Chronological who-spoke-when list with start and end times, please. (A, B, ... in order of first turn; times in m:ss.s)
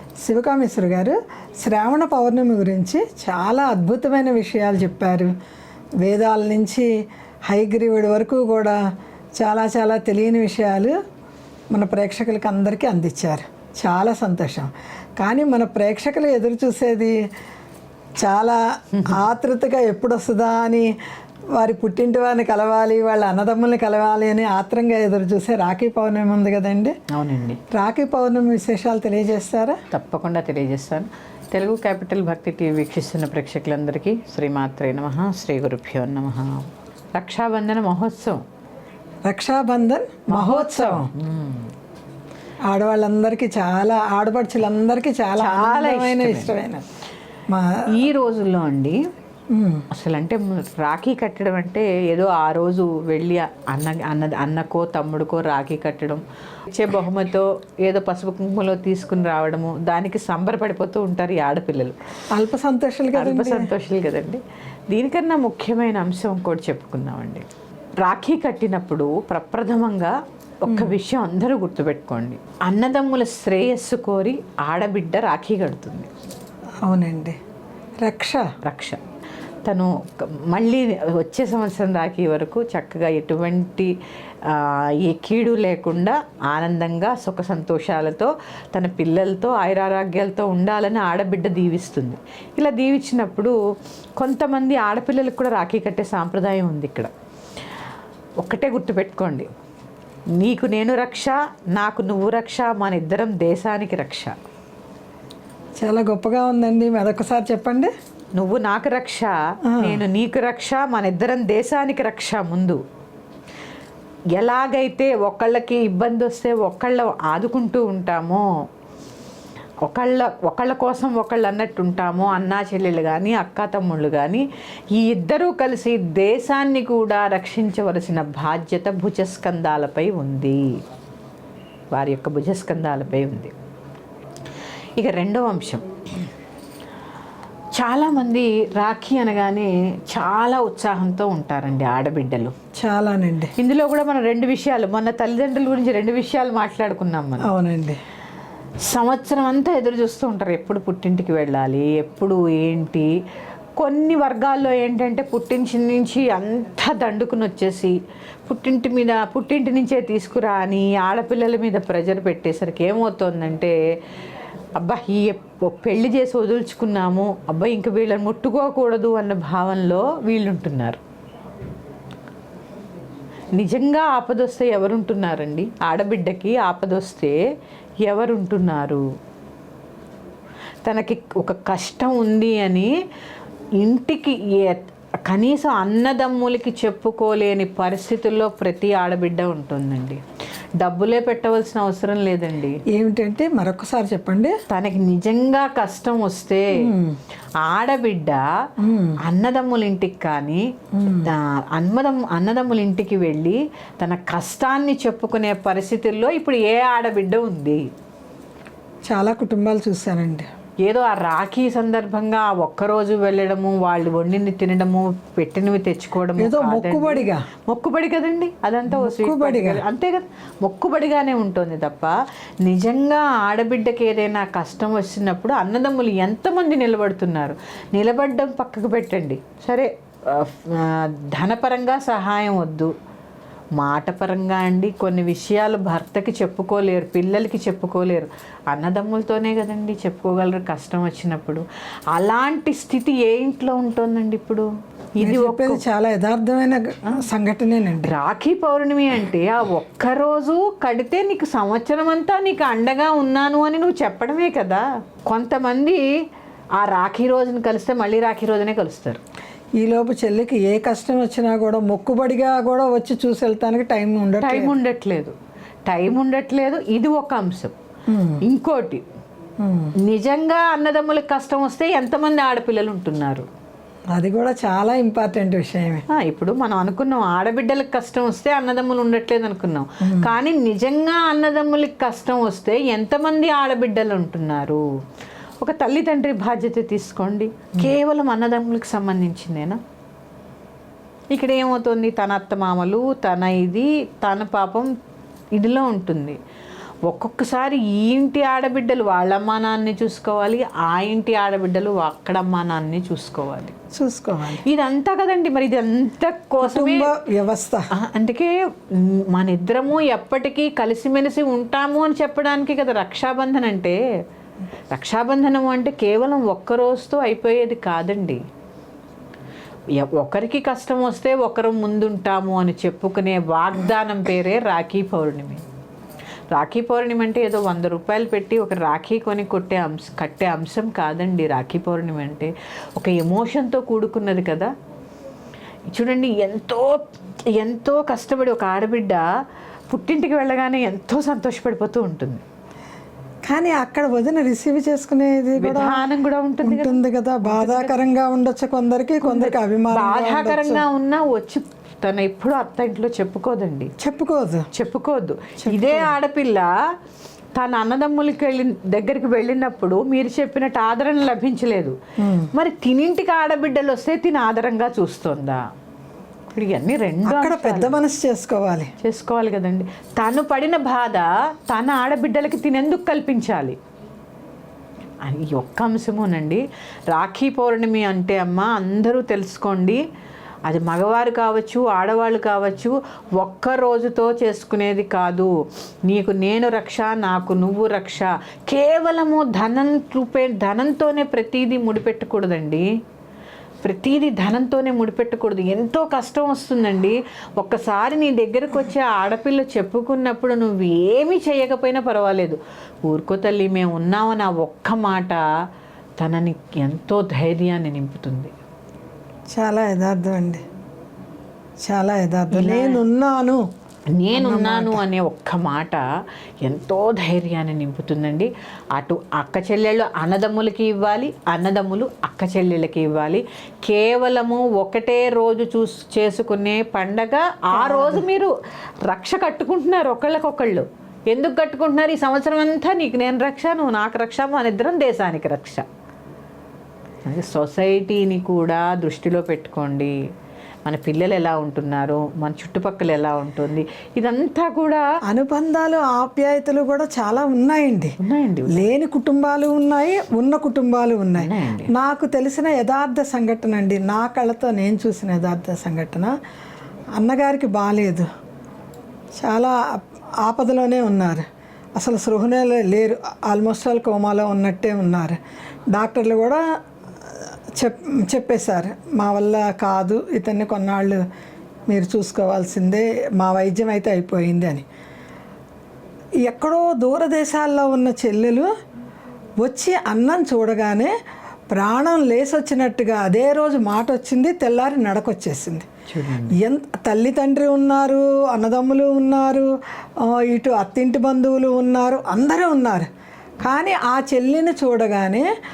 0:00.2-0:05.3 A
0:06.0-0:06.9 A
0:07.5-0:08.8 A
0:09.4-0:11.0 A
0:11.7-0:17.2 A
0:18.2-0:20.9 A
0:19.0-0:19.2 B
0:21.6-0:27.0 A
0:27.1-0:27.6 B
0:27.7-0:29.8 A
0:29.9-0:38.4 B
0:39.3-0:41.1 A
0:40.3-0:41.7 B
0:42.7-0:46.8 A
0:45.4-0:46.6 B
0:47.5-0:47.8 A
0:47.9-0:49.0 B
0:49.5-0:49.8 A
0:49.9-1:02.0 B
1:02.3-1:03.7 A
1:03.2-1:07.4 B
1:08.0-1:10.1 B
1:10.6-1:16.1 B
1:10.7-1:11.0 A
1:16.8-1:17.4 A
1:18.0-1:18.4 A
1:18.6-1:19.0 B
1:19.7-1:23.9 B
1:24.4-1:33.6 B
1:34.2-1:37.1 B
1:38.4-1:39.5 B
1:40.4-1:44.3 B
1:45.8-1:47.9 A
1:48.4-1:52.8 B
1:49.7-1:50.0 A
1:54.4-1:58.4 B
1:59.9-2:10.6 B
2:11.9-2:13.5 B
2:15.0-2:15.8 B
2:17.8-2:22.6 B
2:22.8-2:23.5 A
2:23.6-2:27.5 B
2:27.4-2:28.0 A
2:28.9-2:33.1 B
2:33.8-2:43.8 B
2:44.8-2:51.0 B
2:53.6-2:57.4 B
2:58.0-2:59.0 B
3:00.8-3:02.9 B
3:03.8-3:10.2 B
3:10.8-3:12.8 B
3:12.9-3:14.6 A
3:14.7-3:16.9 B
3:16.8-3:17.2 A
3:17.6-3:18.4 B
3:18.8-3:19.2 A
3:19.2-3:20.7 B
3:20.9-3:21.3 A
3:21.2-3:27.8 B
3:29.1-3:30.5 A
3:30.8-3:52.9 B
3:36.4-3:37.4 A
3:38.9-3:39.8 A
3:53.8-4:05.8 B
4:05.2-4:08.1 A
4:08.0-4:16.1 B
4:16.8-4:19.2 B
4:19.8-4:24.8 A
4:24.4-4:25.4 B
4:25.9-4:27.7 B
4:28.1-4:28.4 A
4:28.4-4:29.0 B
4:29.6-4:29.9 A
4:30.1-4:33.5 B
4:34.1-4:36.0 A
4:36.1-4:44.8 B
4:40.0-4:40.3 A
4:45.6-4:49.8 B
4:51.3-4:54.9 B
4:55.6-4:56.4 B
4:57.1-5:03.8 B
5:04.0-5:04.6 A
5:04.7-5:07.1 B
5:06.6-5:07.8 A
5:08.0-5:14.0 B
5:14.9-5:18.4 B
5:20.0-5:25.6 B
5:26.5-5:34.7 B
5:35.9-5:39.2 B
5:39.9-5:42.4 B
5:43.5-5:46.0 A
5:45.6-5:48.0 B
5:46.6-5:50.8 A
5:49.2-5:53.9 B
5:54.0-5:54.7 A
5:54.7-5:56.7 B
5:55.6-5:56.2 A
5:57.6-6:02.0 B
6:02.2-6:02.5 A
6:02.5-6:05.6 B
6:06.5-6:08.0 B
6:07.3-6:08.9 A
6:09.0-6:13.8 B
6:15.2-6:20.0 B
6:20.7-6:25.5 B
6:26.1-6:32.9 B
6:33.8-6:45.4 B
6:46.2-6:48.5 B
6:49.5-6:50.6 A
6:51.8-6:53.6 A
6:52.5-6:53.0 B
6:54.1-6:56.0 B
6:54.3-6:55.0 A
6:56.6-7:08.5 B
7:07.7-7:08.2 A
7:09.1-7:15.8 B
7:17.2-7:20.1 B
7:20.9-7:25.0 B
7:25.3-7:28.2 A
7:28.2-7:28.9 B
7:28.7-7:36.3 A
7:31.4-7:31.9 B
7:37.2-7:38.3 A
7:39.4-7:41.4 A
7:42.0-7:45.4 A
7:45.9-7:46.6 A
7:47.8-7:51.2 A
7:51.9-7:54.8 A
7:56.4-7:58.7 A
7:59.6-8:01.1 A
8:01.7-8:05.9 A
8:06.1-8:06.6 B
8:06.6-8:09.7 A
8:10.2-8:13.1 A
8:13.6-8:15.5 A